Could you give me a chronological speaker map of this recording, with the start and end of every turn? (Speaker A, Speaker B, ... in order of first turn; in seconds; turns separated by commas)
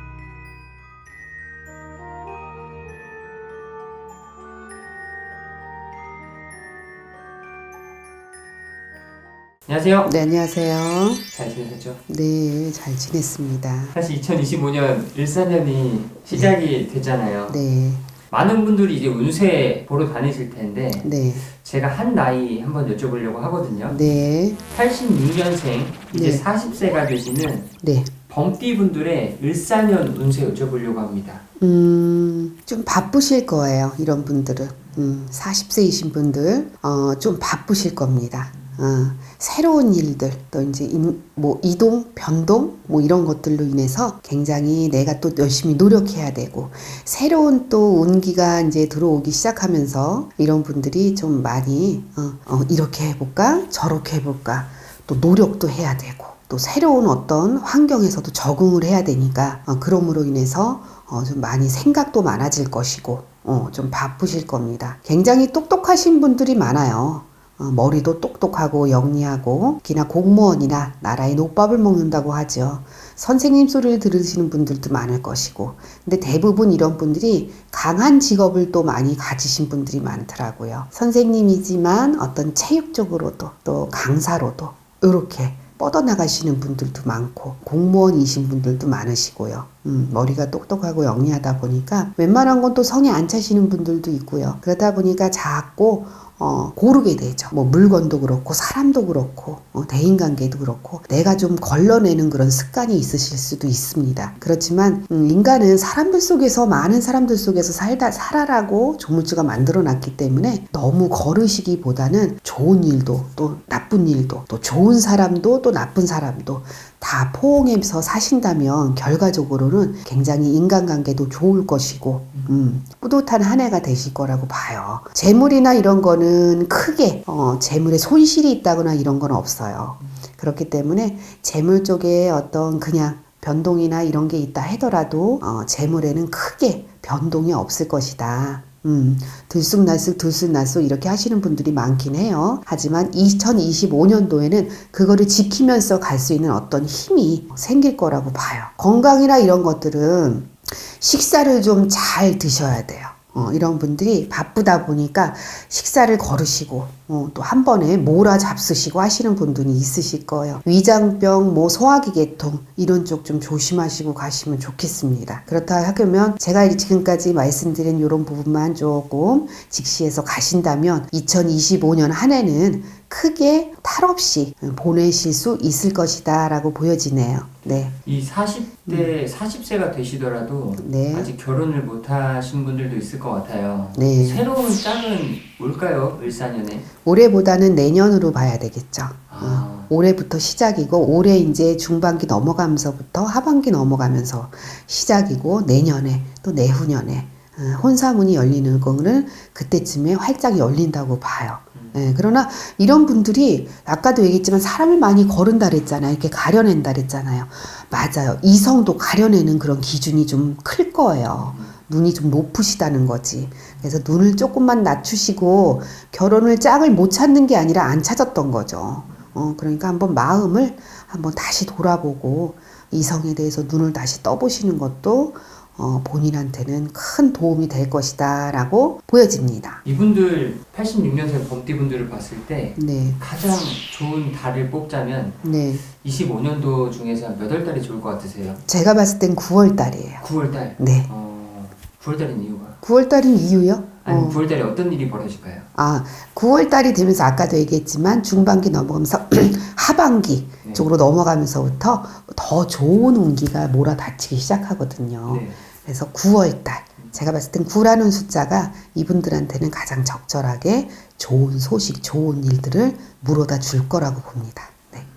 Speaker A: 9.7-10.1, Speaker B: 10.1-11.2, Speaker A: 11.3-12.0, Speaker B: 12.1-13.9, Speaker A: 13.9-17.6, Speaker B: 17.5-18.1, Speaker A: 18.3-24.0, Speaker B: 21.0-21.4, Speaker B: 23.9-24.6, Speaker A: 24.7-27.7, Speaker B: 26.1-26.5, Speaker B: 27.8-28.1, Speaker A: 28.3-31.4, Speaker B: 31.6-178.0, Speaker A: 178.1-186.9, Speaker B: 180.8-181.3, Speaker B: 183.9-184.5, Speaker B: 187.0-229.8, Speaker A: 189.3-189.9, Speaker A: 201.8-202.0, Speaker A: 211.4-211.7, Speaker A: 229.8-238.6, Speaker B: 232.8-233.2, Speaker B: 235.4-235.8, Speaker B: 238.7-240.2, Speaker A: 240.2-242.8, Speaker B: 240.8-241.1, Speaker B: 242.8-244.4, Speaker A: 244.0-245.7, Speaker B: 245.8-265.1, Speaker A: 255.3-255.6